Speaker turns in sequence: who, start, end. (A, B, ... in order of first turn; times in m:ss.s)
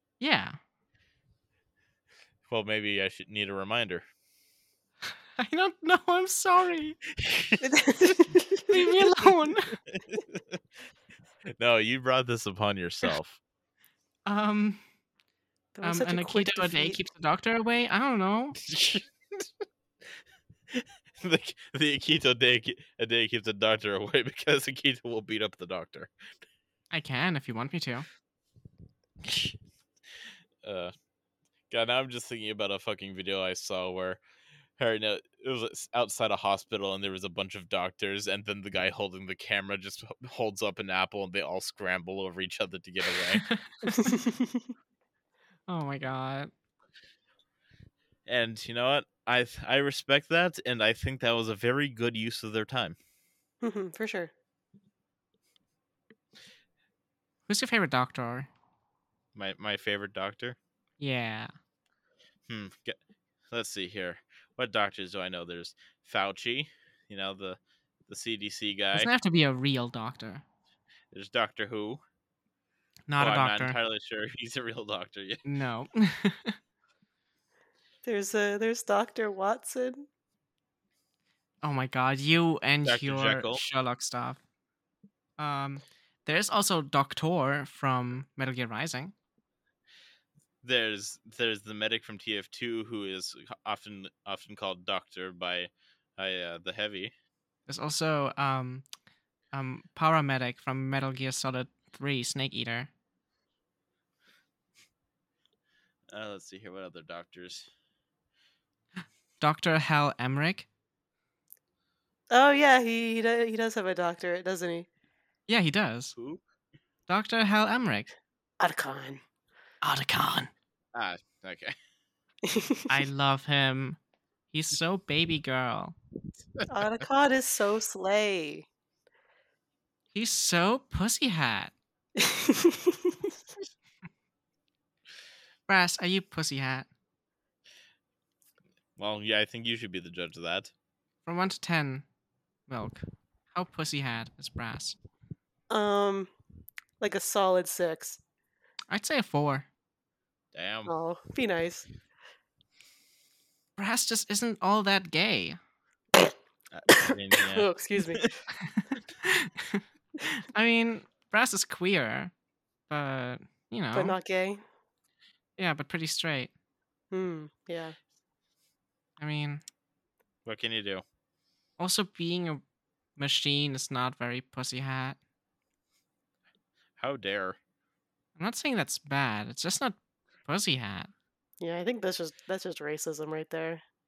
0:00.2-0:00.6 A
0:02.5-0:04.0 B
0:05.4-0:07.0 A
0:07.1-0:08.2 B
0:07.6-0:08.7 C
0:08.7-0:09.8 A
0:09.9-0:10.6 B
0:11.6-0:13.4 B
0:14.3-0:14.8 A
0:15.8-0:17.0 C
0:15.8-0:18.6 A
0:18.6-0:19.4 B
0:20.7-0:26.1 B
0:26.9-0:28.1 A
0:29.2-0:29.6 B
0:30.6-0:30.9 B
0:31.7-0:34.2 B
0:34.8-0:43.5 B
0:43.4-0:44.1 A
0:43.9-0:44.6 C
0:45.7-0:46.5 A
0:48.3-0:53.0 B
0:53.6-0:54.3 C
0:57.5-0:58.5 A
0:59.4-1:00.6 B
1:01.0-1:01.5 A
1:02.5-1:03.0 B
1:03.5-1:09.1 B
1:08.9-1:10.4 A
1:11.1-1:12.0 B
1:13.1-1:13.8 A
1:13.2-1:15.4 B
1:15.4-1:16.6 A
1:18.0-1:20.1 C
1:21.6-1:24.4 A
1:22.8-1:23.6 B
1:25.4-1:29.1 A
1:30.6-1:37.1 B
1:37.7-1:38.8 A
1:39.5-1:42.9 A
1:46.1-1:47.7 B
1:49.4-1:50.7 A
1:52.3-1:54.9 C
1:55.5-1:56.2 A
1:56.2-1:56.4 B
1:57.1-1:58.1 A
1:58.6-1:59.2 C
1:59.8-2:00.5 A
2:00.9-2:01.8 B
2:02.4-2:02.8 C
2:02.9-2:04.0 A
2:04.5-2:06.0 A
2:06.6-2:06.9 B
2:06.7-2:08.7 C
2:10.1-2:11.7 A
2:12.2-2:13.1 C
2:15.7-2:16.9 A
2:19.0-2:20.7 B
2:21.3-2:22.0 A
2:22.7-2:25.0 A
2:25.7-2:26.3 C
2:27.0-2:28.2 C
2:28.9-2:29.7 A
2:30.5-2:30.9 B
2:30.9-2:31.9 C
2:33.8-2:35.6 A
2:36.7-2:38.3 B
2:36.9-2:38.3 C
2:38.6-2:42.3 A
2:42.9-2:44.2 A
2:43.9-2:44.6 C
2:45.6-2:46.5 A
2:47.1-2:48.0 C
2:49.2-2:49.6 A
2:50.4-2:51.0 B
2:51.8-2:52.6 A
2:53.2-2:55.2 A
2:57.0-2:57.6 B
2:58.4-3:01.1 A
3:01.6-3:03.8 C